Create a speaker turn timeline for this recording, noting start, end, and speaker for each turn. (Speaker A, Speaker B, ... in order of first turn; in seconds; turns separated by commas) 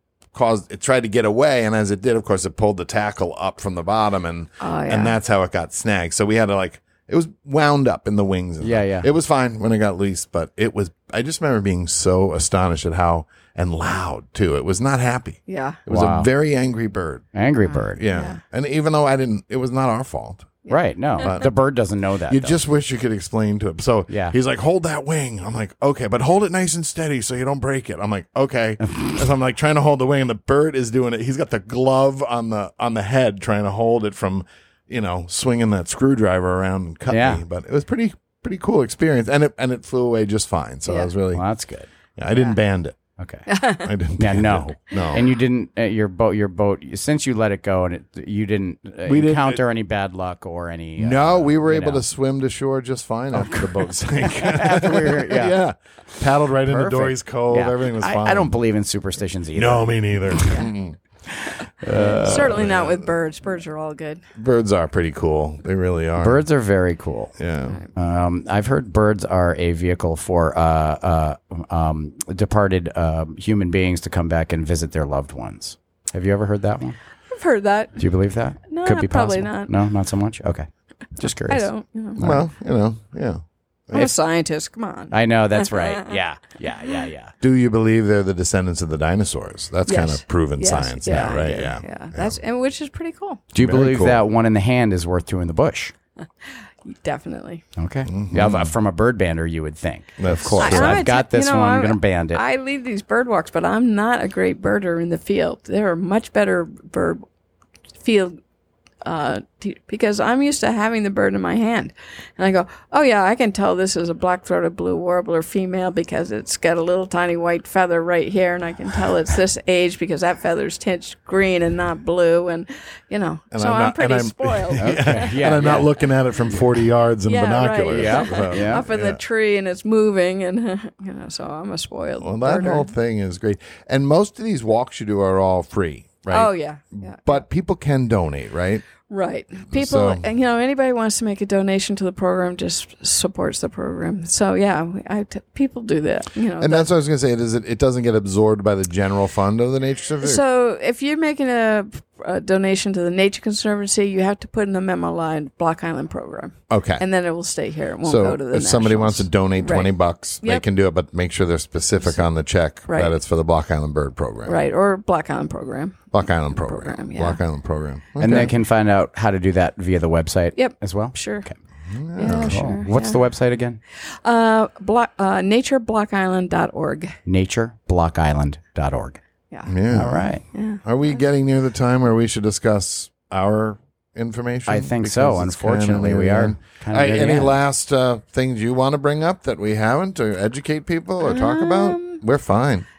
Speaker A: 0.3-17.2, Speaker B: 4.6-5.1, Speaker C: 8.6-9.1, Speaker B: 15.5-15.8, Speaker C: 15.9-16.3, Speaker C: 17.3-18.0, Speaker A: 17.9-20.6, Speaker B: 18.1-18.4, Speaker B: 20.6-21.5, Speaker C: 20.7-22.6, Speaker A: 21.2-21.5, Speaker A: 22.3-41.4, Speaker C: 24.1-24.3, Speaker C: 28.9-29.2, Speaker C: 37.1-37.4, Speaker B: 40.8-41.1, Speaker C: 41.3-41.9, Speaker A: 42.1-43.0, Speaker C: 43.2-43.5, Speaker B: 43.5-43.9, Speaker A: 43.8-45.2, Speaker C: 44.2-52.0, Speaker A: 49.0-49.6, Speaker A: 51.0-58.5, Speaker C: 53.3-55.6, Speaker C: 56.6-60.6, Speaker A: 59.5-63.1, Speaker C: 61.8-62.6, Speaker B: 61.9-64.2, Speaker A: 64.3-66.4, Speaker C: 66.2-67.4, Speaker A: 67.4-67.8, Speaker C: 67.9-77.0, Speaker B: 77.3-78.0, Speaker C: 78.0-81.7, Speaker B: 78.7-79.7, Speaker B: 81.4-82.2, Speaker A: 82.2-84.1, Speaker C: 82.2-82.4, Speaker B: 83.9-86.2, Speaker C: 85.1-87.3, Speaker A: 87.4-92.4, Speaker B: 89.9-93.4, Speaker C: 91.1-91.3, Speaker C: 93.5-95.9, Speaker A: 93.5-94.2, Speaker B: 96.4-97.6, Speaker C: 97.8-102.4, Speaker A: 98.1-98.7, Speaker A: 100.2-101.1, Speaker B: 100.6-107.2, Speaker B: 108.0-108.4, Speaker B: 109.0-125.8, Speaker A: 123.5-129.2, Speaker C: 124.8-126.0, Speaker B: 127.2-132.9, Speaker C: 127.9-128.8, Speaker A: 132.2-138.8, Speaker B: 136.3-137.4, Speaker B: 139.1-146.9, Speaker A: 139.7-140.2, Speaker A: 146.6-150.4, Speaker B: 150.2-160.6, Speaker A: 156.7-157.0, Speaker A: 158.0-164.6, Speaker B: 162.9-163.1, Speaker B: 164.4-167.4, Speaker A: 166.1-168.5, Speaker C: 168.2-171.6, Speaker B: 170.6-171.4, Speaker A: 171.9-172.6, Speaker B: 172.2-173.2, Speaker C: 172.2-173.8, Speaker B: 174.0-177.2, Speaker C: 177.2-179.2, Speaker A: 179.7-180.3, Speaker C: 179.9-180.4, Speaker B: 180.5-181.2, Speaker A: 180.8-192.8, Speaker C: 184.7-187.5, Speaker B: 191.2-192.2